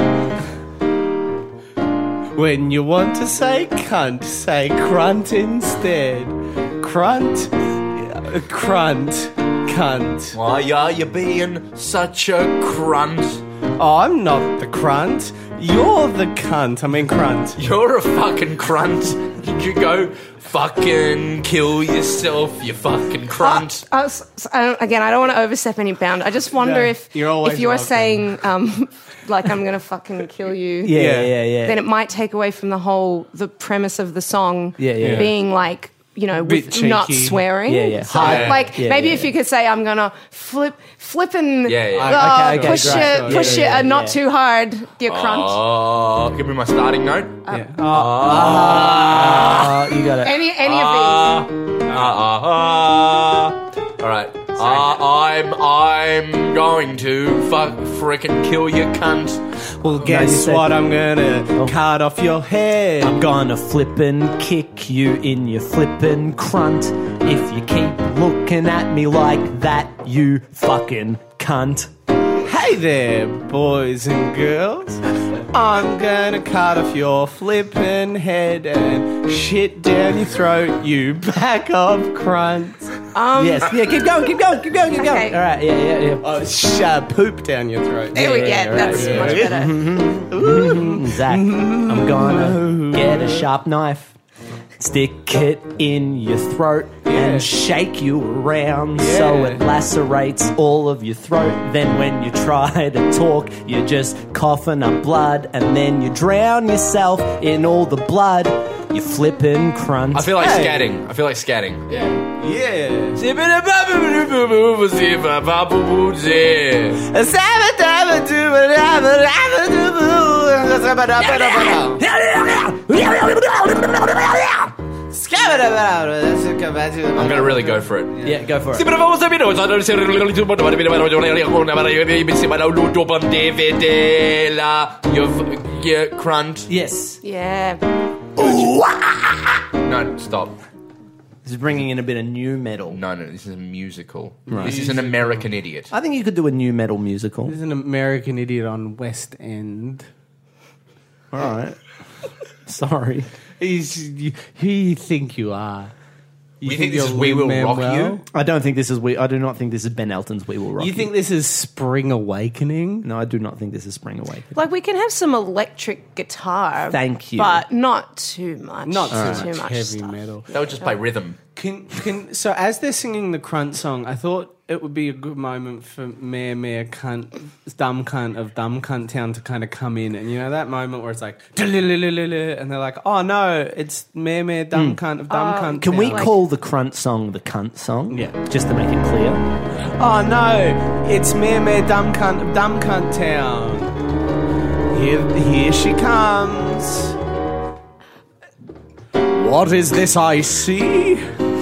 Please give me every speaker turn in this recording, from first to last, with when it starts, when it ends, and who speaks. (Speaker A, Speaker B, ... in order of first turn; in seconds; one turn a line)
Speaker A: 2.3-10.4
Speaker B: 10.3-13.4
Speaker A: 13.8-17.6
Speaker B: 17.6-23.8
Speaker C: 23.4-45.6
Speaker A: 26.5-28.4
Speaker D: 30.8-31.8
Speaker A: 30.9-31.3
Speaker D: 34.8-35.3
Speaker A: 35.0-35.3
Speaker A: 36.4-37.4
Speaker D: 37.6-39.3
Speaker B: 38.1-38.6
Speaker A: 38.2-38.5
Speaker B: 41.6-42.3
Speaker A: 41.9-43.8
Speaker D: 42.1-44.2
Speaker B: 45.1-49.8
Speaker C: 47.5-47.8
Speaker A: 47.5-49.0
Speaker D: 47.8-50.3
Speaker C: 50.2-51.5
Speaker B: 50.6-59.4
Speaker A: 59.8-63.2
Speaker D: 60.0-60.8
Speaker D: 63.0-71.9
Speaker A: 72.4-82.9
Speaker C: 83.1-83.7
Speaker D: 83.3-86.3
Speaker C: 84.9-85.4
Speaker A: 86.2-89.8
Speaker C: 88.1-89.8
Speaker D: 88.1-94.1
Speaker A: 90.3-93.5
Speaker D: 94.8-110.4
Speaker A: 97.0-97.5
Speaker A: 99.0-99.6
Speaker B: 110.1-112.2
Speaker A: 110.4-110.9
Speaker A: 112.4-113.2
Speaker B: 113.2-117.0
Speaker A: 117.0-122.0
Speaker D: 121.2-124.7
Speaker A: 125.1-128.3
Speaker B: 127.2-136.7
Speaker D: 128.2-128.9
Speaker D: 136.7-137.2
Speaker C: 137.2-137.8
Speaker D: 138.3-139.6
Speaker B: 138.4-138.6
Speaker B: 139.7-140.6
Speaker D: 141.4-143.0
Speaker B: 142.9-145.9
Speaker D: 144.5-144.8
Speaker A: 144.5-145.4
Speaker D: 145.9-147.6
Speaker A: 147.4-150.1
Speaker D: 151.3-151.8
Speaker D: 152.7-153.3
Speaker A: 153.6-155.9
Speaker A: 156.6-158.2
Speaker B: 156.6-158.2
Speaker D: 158.3-161.1
Speaker A: 160.8-163.1
Speaker D: 163.0-164.6
Speaker C: 164.5-170.9
Speaker D: 166.9-167.6
Speaker A: 168.8-170.5
Speaker D: 169.1-169.5
Speaker B: 170.5-171.4
Speaker A: 171.5-186.3
Speaker D: 184.7-185.0
Speaker C: 185.3-186.4
Speaker D: 185.8-189.4
Speaker A: 188.1-188.3
Speaker A: 189.9-193.9
Speaker A: 194.9-197.1
Speaker A: 199.3-201.2